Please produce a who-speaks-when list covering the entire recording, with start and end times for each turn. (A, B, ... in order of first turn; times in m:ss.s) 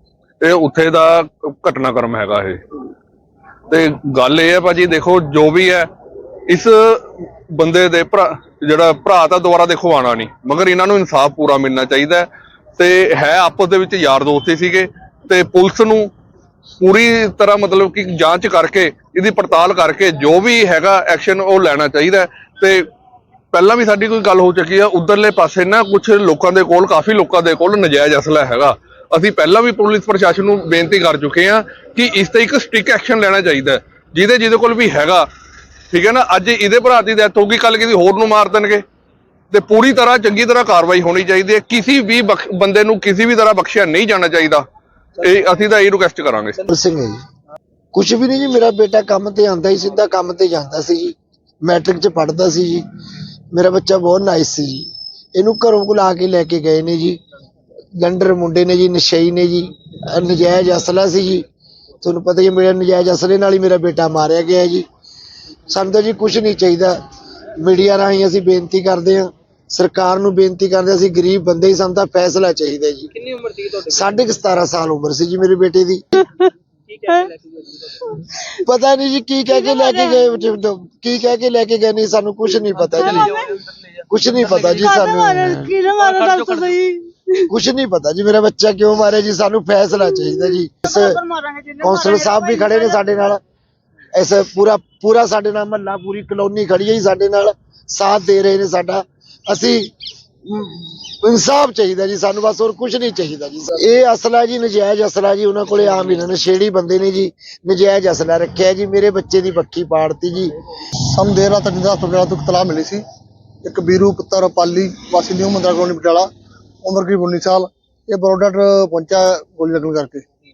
0:00.4-0:02.6 A
0:03.7-0:05.9 A
0:06.5-0:16.1 A
0:16.8-0:22.8 A
0:23.5-0:35.3 A
0:35.9-0:38.8 A
0:39.5-0:44.6 A
0:45.2-0:46.6 A
0:46.7-0:47.2 B
0:47.9-0:52.8 B
0:53.5-0:57.2 B
0:58.0-1:01.5 B
1:02.0-1:04.8 B
1:05.7-1:07.0 B
1:07.6-1:16.2 B
1:17.0-1:17.3 C
1:18.4-1:23.4 B
1:19.6-1:20.2 C
1:23.0-1:23.5 C
1:24.0-1:25.8 B
1:24.7-1:27.4 C
1:27.4-1:31.2 B
1:30.8-1:33.0 C
1:31.8-1:33.4 B
1:34.1-1:39.9 B
1:40.5-1:50.5 B
1:51.1-1:53.0 D
1:53.6-1:56.3 D
1:56.8-2:00.2 D